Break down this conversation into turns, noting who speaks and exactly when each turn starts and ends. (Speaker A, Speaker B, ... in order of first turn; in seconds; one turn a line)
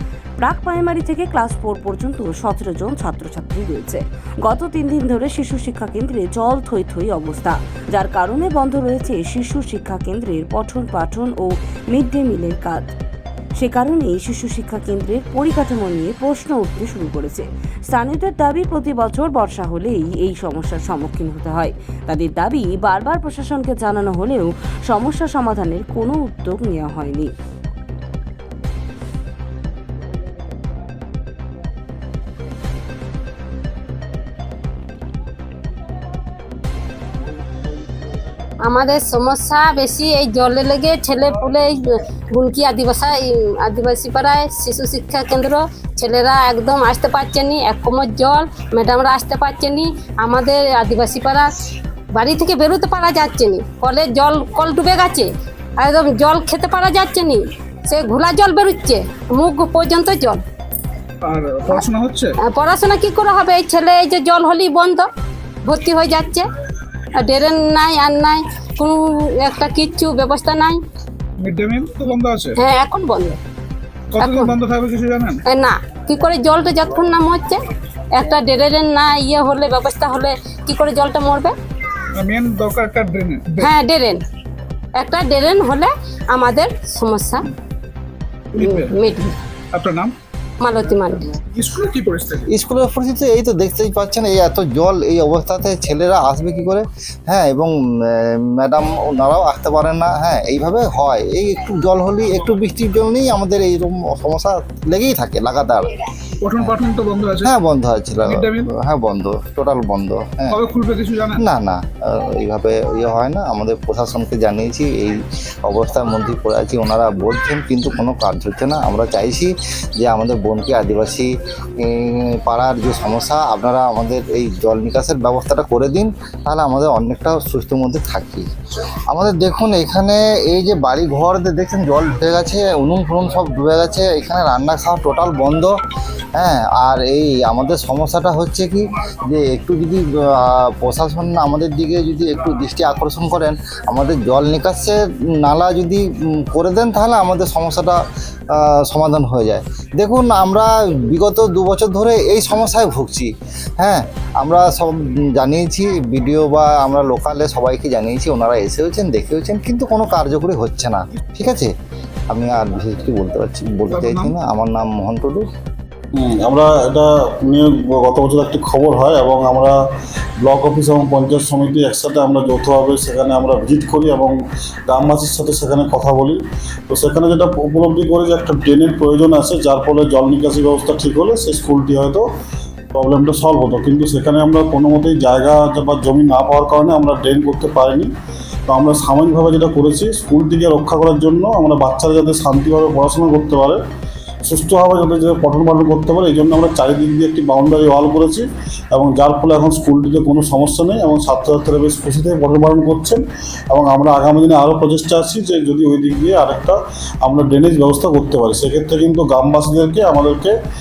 Speaker A: 0.4-12.9
Speaker A: 13.6-27.3
Speaker B: 38.6-41.8
Speaker B: 42.3-51.5
Speaker B: 52.1-60.4
Speaker C: 61.2-62.3
Speaker B: 62.4-65.1
Speaker B: 65.6-66.4
Speaker B: 67.1-70.8
Speaker C: 71.4-72.5
Speaker B: 72.6-73.4
Speaker C: 74.1-75.4
Speaker B: 74.2-74.5
Speaker B: 75.5-77.6
Speaker B: 78.1-81.5
Speaker C: 82.2-83.7
Speaker B: 83.6-84.2
Speaker B: 85.0-87.5
Speaker B: 88.5-89.3
Speaker C: 88.5-88.9
Speaker C: 89.7-90.1
Speaker B: 90.6-91.4
Speaker C: 91.3-92.5
Speaker D: 92.5-106.0
Speaker C: 106.4-107.5
Speaker D: 107.4-110.6
Speaker C: 108.2-108.6
Speaker C: 110.5-111.4
Speaker D: 111.4-128.4
Speaker D: 129.1-135.8
Speaker D: 136.3-148.0
Speaker D: 148.5-161.7
Speaker D: 162.3-165.4
Speaker C: 163.9-164.3
Speaker E: 166.1-169.8
Speaker E: 170.4-182.2
Speaker E: 182.9-188.1
Speaker E: 188.7-193.8
Speaker E: 194.4-210.6